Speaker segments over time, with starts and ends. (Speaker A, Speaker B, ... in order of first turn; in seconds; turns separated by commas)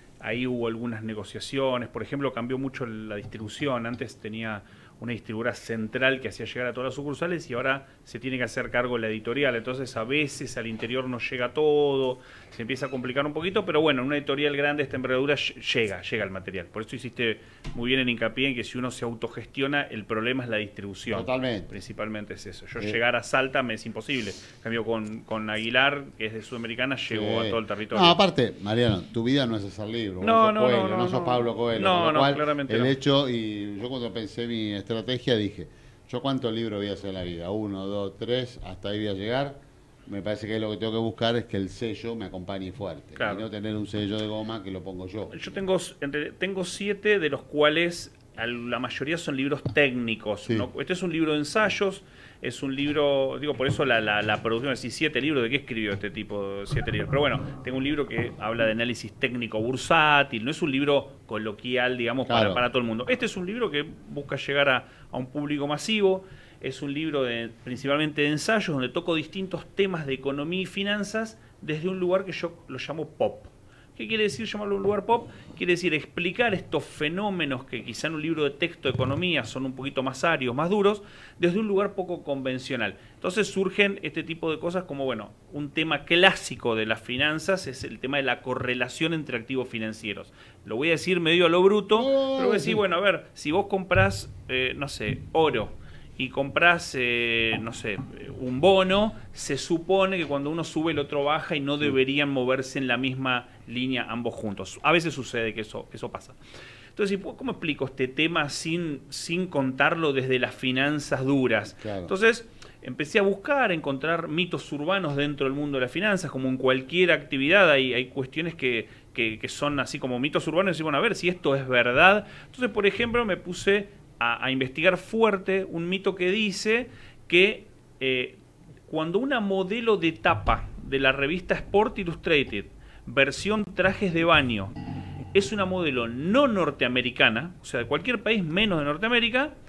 Speaker A: 0.2-28.2, Speaker B: 21.1-21.7, Speaker B: 27.1-45.6, Speaker A: 30.2-32.9, Speaker A: 43.2-43.5, Speaker A: 45.3-106.4, Speaker B: 62.3-62.6, Speaker B: 92.0-92.8, Speaker A: 107.0-134.7, Speaker B: 111.8-112.1, Speaker A: 135.3-139.5